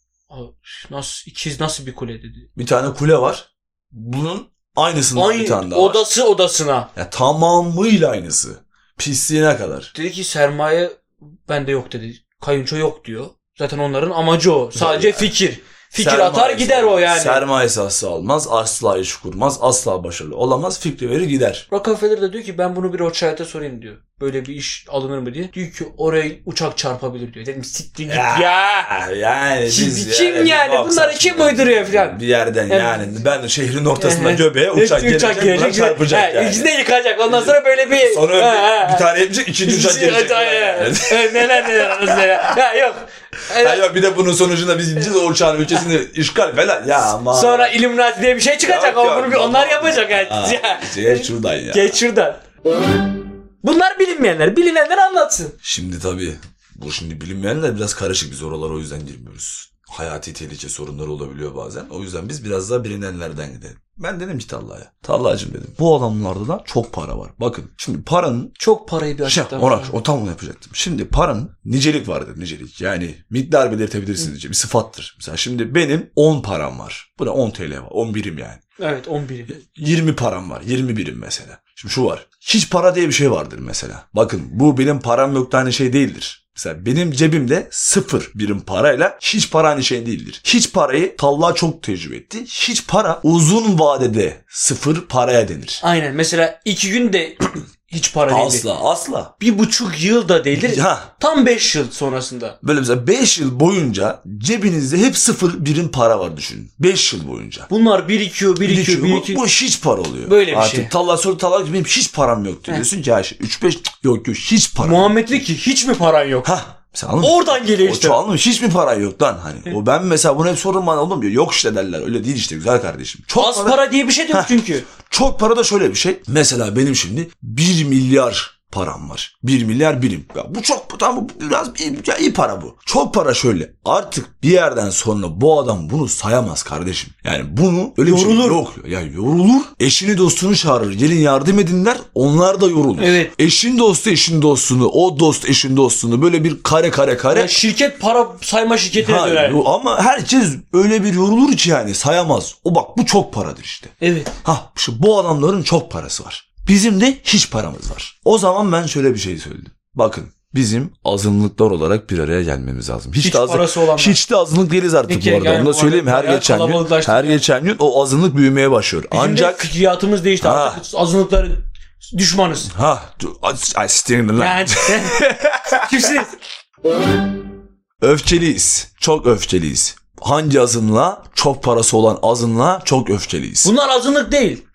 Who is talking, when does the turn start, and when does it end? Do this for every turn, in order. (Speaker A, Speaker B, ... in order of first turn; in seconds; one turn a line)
Speaker A: 0.3-2.5
Speaker B: 2.5-6.0
Speaker A: 5.1-6.9
Speaker B: 6.9-9.9
Speaker A: 9.9-17.4
Speaker B: 14.7-15.3
Speaker B: 16.0-21.6
Speaker A: 21.7-28.9
Speaker B: 28.1-36.7
Speaker A: 29.7-33.1
Speaker A: 34.0-39.1
Speaker B: 37.2-42.6
Speaker A: 39.6-43.9
Speaker B: 43.5-47.8
Speaker A: 47.1-52.4
Speaker B: 48.6-52.0
Speaker A: 53.6-55.5
Speaker B: 55.6-68.5
Speaker A: 68.6-69.9
Speaker B: 69.2-78.6
Speaker A: 78.8-79.5
Speaker B: 79.5-95.8
Speaker A: 95.8-98.7
Speaker B: 98.3-99.3
Speaker A: 99.4-102.6
Speaker B: 100.5-101.1
Speaker B: 102.6-107.7
Speaker A: 107.7-109.4
Speaker B: 108.6-115.4
Speaker A: 110.2-110.9
Speaker A: 114.8-116.5
Speaker B: 116.4-147.6
Speaker A: 117.2-118.2
Speaker A: 123.3-124.9
Speaker A: 138.0-138.6
Speaker A: 143.0-143.3
Speaker A: 147.3-149.6
Speaker B: 148.9-169.7
Speaker A: 154.0-154.3
Speaker A: 163.2-164.2
Speaker A: 165.1-167.4
Speaker A: 169.1-172.7
Speaker B: 170.4-170.8
Speaker B: 172.7-176.1
Speaker A: 174.3-176.3
Speaker B: 178.0-183.7
Speaker A: 183.6-184.6